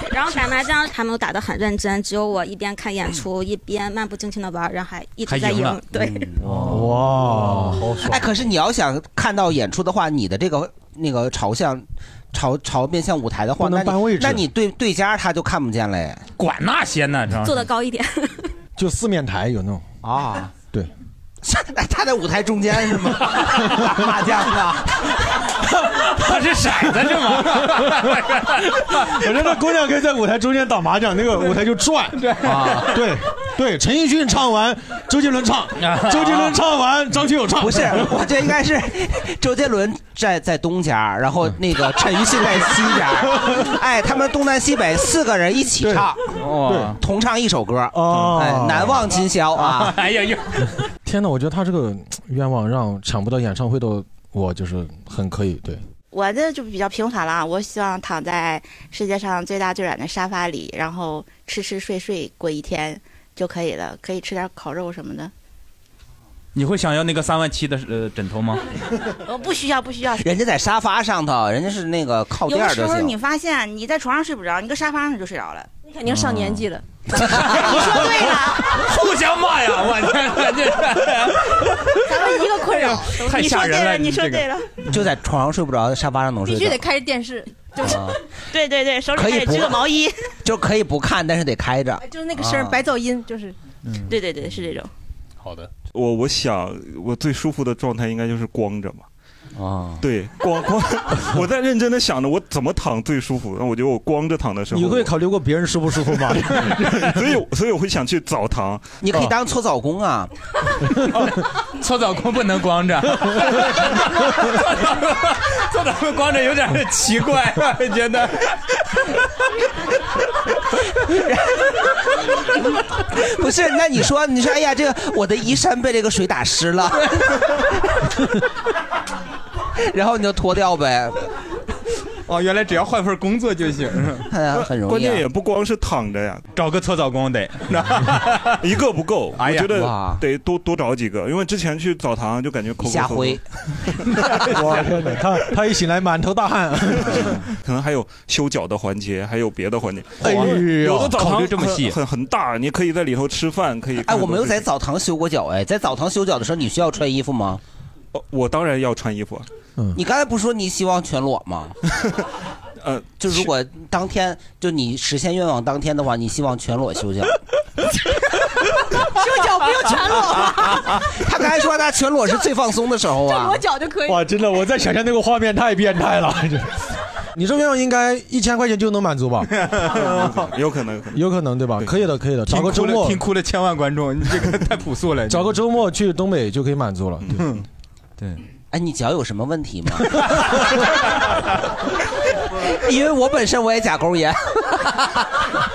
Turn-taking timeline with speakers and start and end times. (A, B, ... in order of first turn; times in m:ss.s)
0:00.1-0:06.3 A
0:05.3-0:05.8 B
0:06.0-0:06.3 C
0:06.4-0:08.2 D
0:06.6-0:07.8 E
0:08.0-0:16.2 C
0:13.6-0:14.4 E
0:16.4-0:17.7 B
0:17.5-0:18.3 A
0:18.8-0:19.9 E
0:20.0-0:20.5 C
0:21.4-0:24.9 C
0:23.6-0:24.1 E
0:25.6-0:32.2 E
0:26.1-0:29.2 B
0:32.2-0:33.0 B
0:32.5-0:32.9 C
0:32.9-0:38.3 E
0:35.8-0:36.6 B
0:37.6-0:46.2 C
0:45.8-0:46.1 E
0:46.4-0:47.0 B
0:46.7-0:47.0 E
0:47.0-0:50.0 C
0:47.9-0:49.1 E
0:49.6-0:50.7 B
0:51.0-0:55.8 E
0:56.1-1:05.3 F
1:06.6-1:08.6 B
1:09.3-1:10.3 F
1:10.2-1:13.2 C
1:12.5-1:15.7 F
1:15.8-1:16.8 G
1:16.1-1:16.7 B
1:17.2-1:17.9 C
1:17.4-1:24.5 B
1:17.7-1:18.7 F
1:22.1-1:23.2 G
1:23.2-1:24.6 F
1:24.9-1:26.9 C
1:26.4-1:28.0 G
1:27.8-1:28.2 C
1:28.5-1:30.2 F
1:29.1-1:29.9 C
1:30.4-1:32.8 C
1:32.0-1:33.6 G
1:34.1-1:34.9 F
1:35.4-1:35.7 D
1:35.9-1:39.0 H
1:39.6-1:40.0 C
1:40.0-1:45.1 H
1:44.7-1:47.2 E
1:47.1-1:49.0 H
1:49.0-1:50.3 C
1:51.8-1:58.5 B
2:01.1-2:01.4 C
2:03.0-2:07.5 C
2:09.8-2:11.3 C
2:12.3-2:14.3 B
2:14.3-2:15.3 C
2:14.6-2:16.4 H
2:16.5-2:18.6 B
2:18.6-2:23.4 H
2:19.4-2:19.9 B
2:19.6-2:20.2 C
2:22.8-2:23.4 C
2:24.5-2:27.4 E
2:27.6-2:34.6 H
2:30.2-2:31.2 E
2:30.2-2:32.0 B
2:34.0-2:37.6 C
2:38.1-2:39.5 H
2:40.0-2:41.8 C
2:42.8-2:43.5 H
2:43.2-2:47.4 C
2:49.0-2:51.1 G
2:50.0-2:53.6 C
2:53.2-2:54.3 G
2:54.1-2:56.8 E
2:57.3-2:59.5 E
2:59.6-3:00.4 B
2:59.9-3:01.2 H
3:01.1-3:03.2 E
3:02.5-3:05.6 B
3:05.3-3:07.4 E
3:07.3-3:07.6 B
3:08.7-3:10.5 C
3:12.6-3:15.2 C